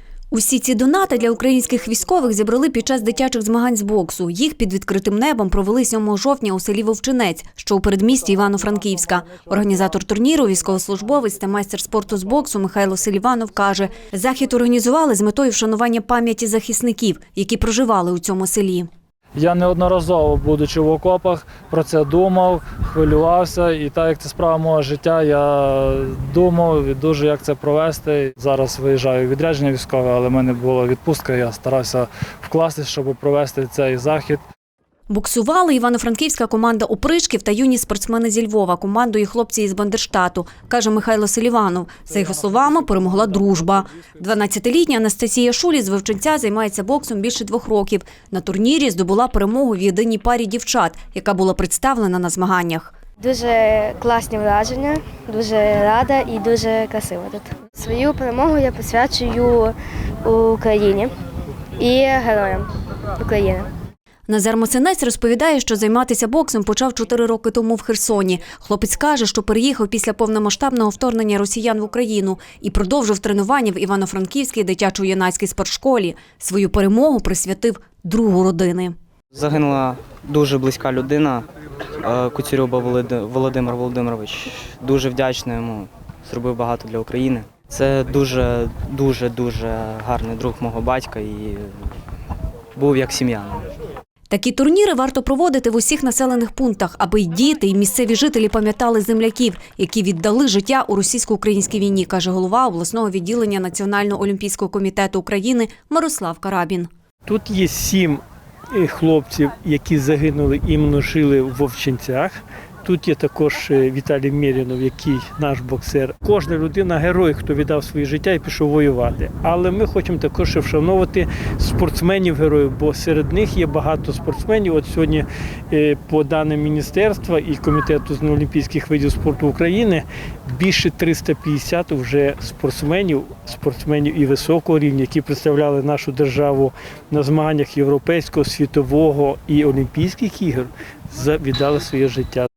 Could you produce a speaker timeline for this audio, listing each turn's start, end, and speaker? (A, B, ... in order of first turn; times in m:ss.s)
0:00.3-0:18.9 A
0:19.4-0:34.4 B
0:35.1-0:52.9 A
0:53.2-1:01.1 C
1:01.8-1:03.7 C
1:04.3-1:18.9 A
1:19.3-1:21.5 D
1:22.0-1:31.8 D
1:32.7-1:33.7 D
1:34.3-1:46.9 A
1:47.3-1:48.2 E
1:48.7-2:22.5 E